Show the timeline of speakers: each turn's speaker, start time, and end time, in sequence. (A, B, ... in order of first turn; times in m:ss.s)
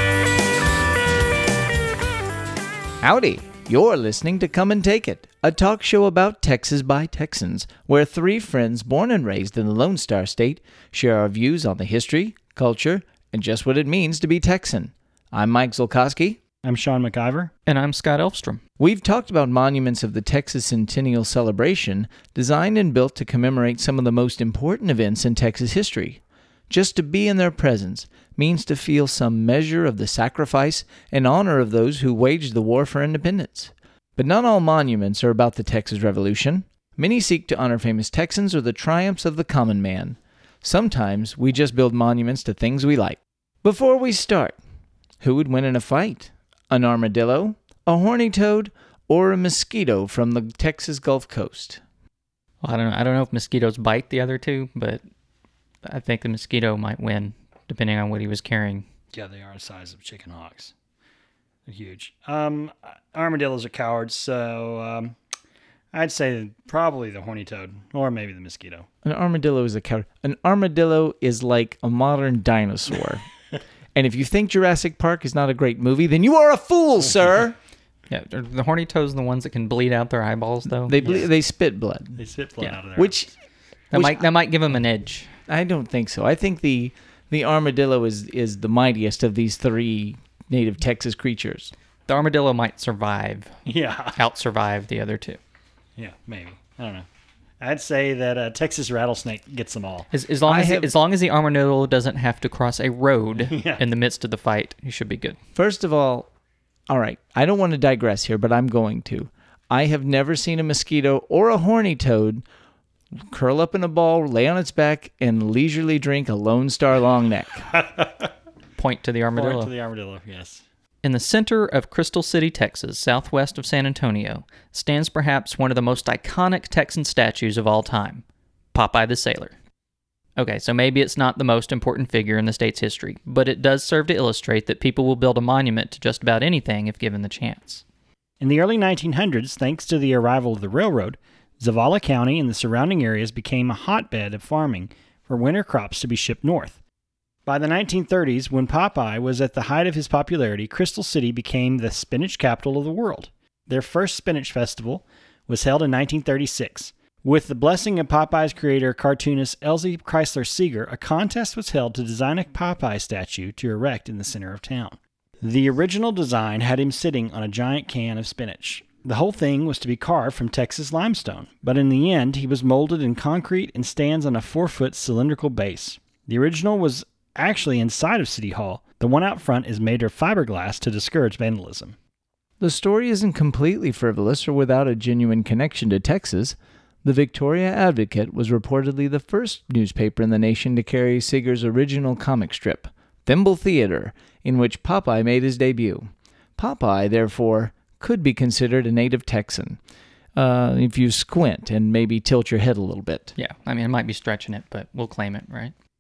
0:03.0-0:16.4 A
0:16.6-0:17.5 B
0:17.6-0:18.6 C
0:18.8-0:44.6 A
0:45.2-0:51.8 A
0:52.6-0:55.0 C
0:55.8-0:58.8 C
0:59.1-1:00.7 B
1:01.6-1:05.2 B
1:05.9-1:08.9 B
1:09.0-1:13.3 A
1:13.9-1:17.5 A
1:18.1-1:20.9 C
1:20.8-1:22.2 A
1:21.0-1:21.3 B
1:22.2-1:23.2 B
1:23.0-1:23.3 A
1:23.9-1:25.3 C
1:23.9-1:24.2 A
1:25.5-1:31.7 A
1:32.1-1:33.6 C
1:33.6-1:34.2 B
1:34.1-1:35.4 C
1:36.0-1:37.1 B
1:37.6-1:40.1 B
1:40.1-1:45.4 C
1:40.5-1:40.9 A
1:43.4-1:43.8 B
1:45.5-1:46.3 A
1:46.9-1:52.4 A
1:53.3-1:57.8 A
1:57.9-1:58.3 B
1:58.8-1:59.7 C
1:59.3-2:00.6 B
2:01.0-2:09.5 C
2:10.4-2:17.8 C
2:18.4-2:26.8 B
2:27.4-3:02.0 B
3:02.6-3:19.8 A
3:20.4-3:23.3 A
3:23.4-3:25.7 C